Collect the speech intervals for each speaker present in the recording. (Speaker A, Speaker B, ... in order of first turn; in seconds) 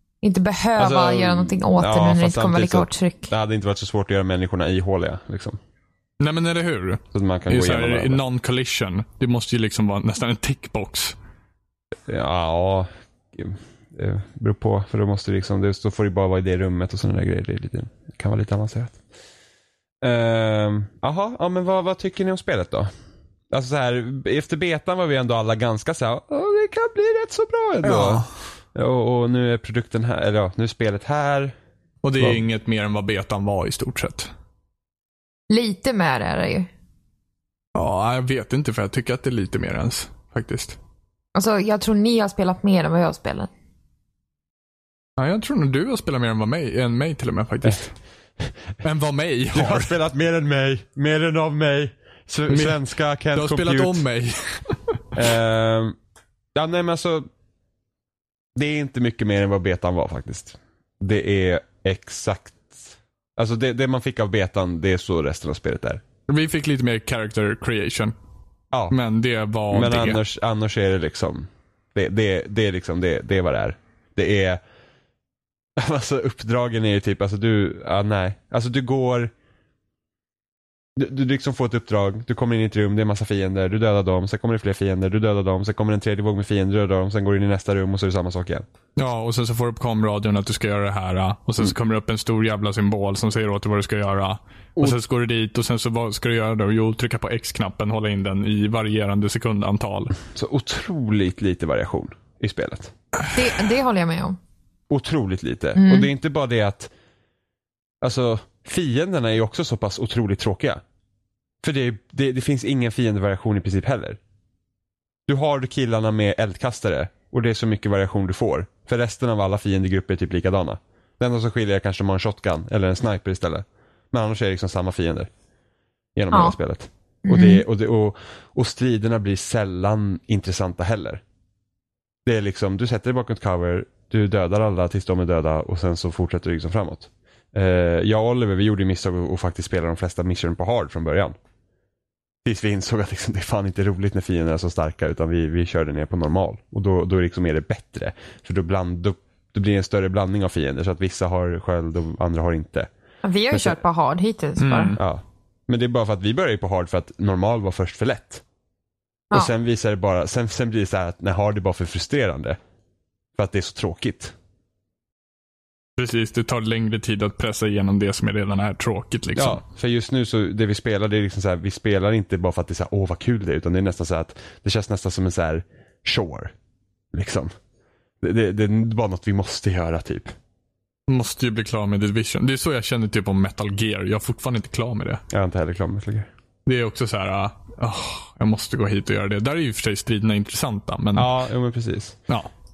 Speaker A: 0.2-3.3, 35.5-36.7, 41.4-43.5, 103.3-104.4, 105.8-106.1, 127.3-127.6, 153.2-155.0
Speaker B: 0.8-5.6, 7.1-8.2, 12.1-19.0, 20.0-22.9, 23.5-31.5, 49.5-54.0, 55.1-56.0, 56.5-57.3, 58.6-66.0, 69.7-74.6, 75.8-79.3, 81.0-88.7, 100.3-102.9, 104.9-106.9, 108.0-110.8, 111.6-114.2, 115.3-125.3, 126.2-131.2, 132.2-141.4, 142.4-152.9, 153.5-153.8, 155.0-158.4, 159.3-162.6, 163.4-164.3, 169.3-176.5, 177.1-177.5, 178.2-180.4, 185.3-186.3, 191.2-192.2
Speaker C: 6.2-11.2, 27.8-28.3, 32.0-34.3, 37.8-40.8, 45.2-48.0, 48.8-49.9, 52.5-52.8, 53.3-55.0, 66.3-68.1, 68.9-70.2, 89.0-100.2, 154.6-155.0, 166.0-169.6, 181.1-185.2, 186.7-191.3